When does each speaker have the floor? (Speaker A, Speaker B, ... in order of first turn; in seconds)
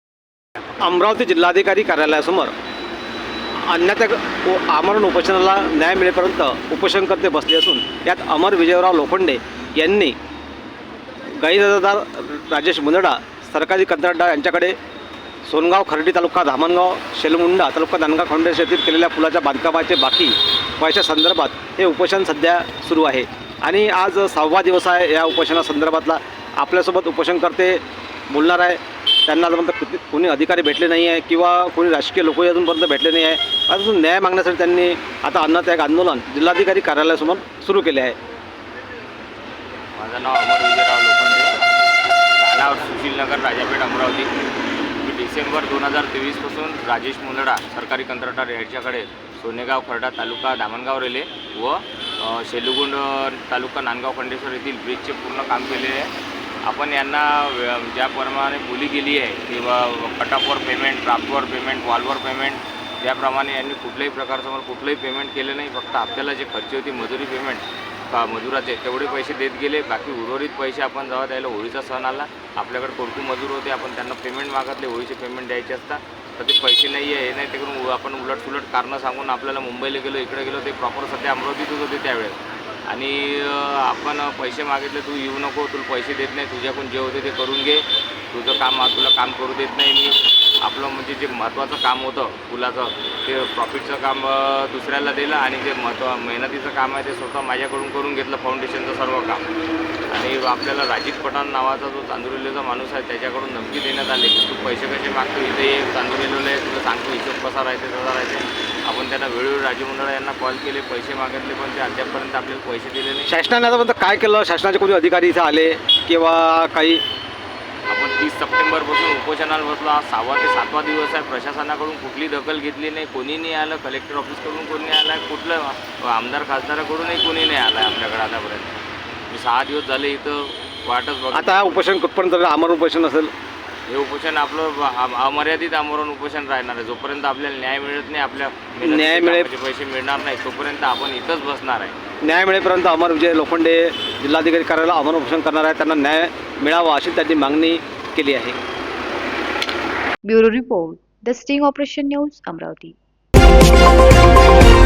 Speaker A: 0.8-2.5, 3.6-10.2, 11.3-14.8, 15.4-38.1, 113.2-117.0, 131.3-133.3, 138.8-139.5, 142.2-148.6
Speaker B: 39.9-41.6, 42.4-44.3, 45.0-56.1, 56.6-99.4, 100.1-113.3, 117.9-128.8, 129.3-131.8, 133.9-141.9
Speaker C: 150.2-152.9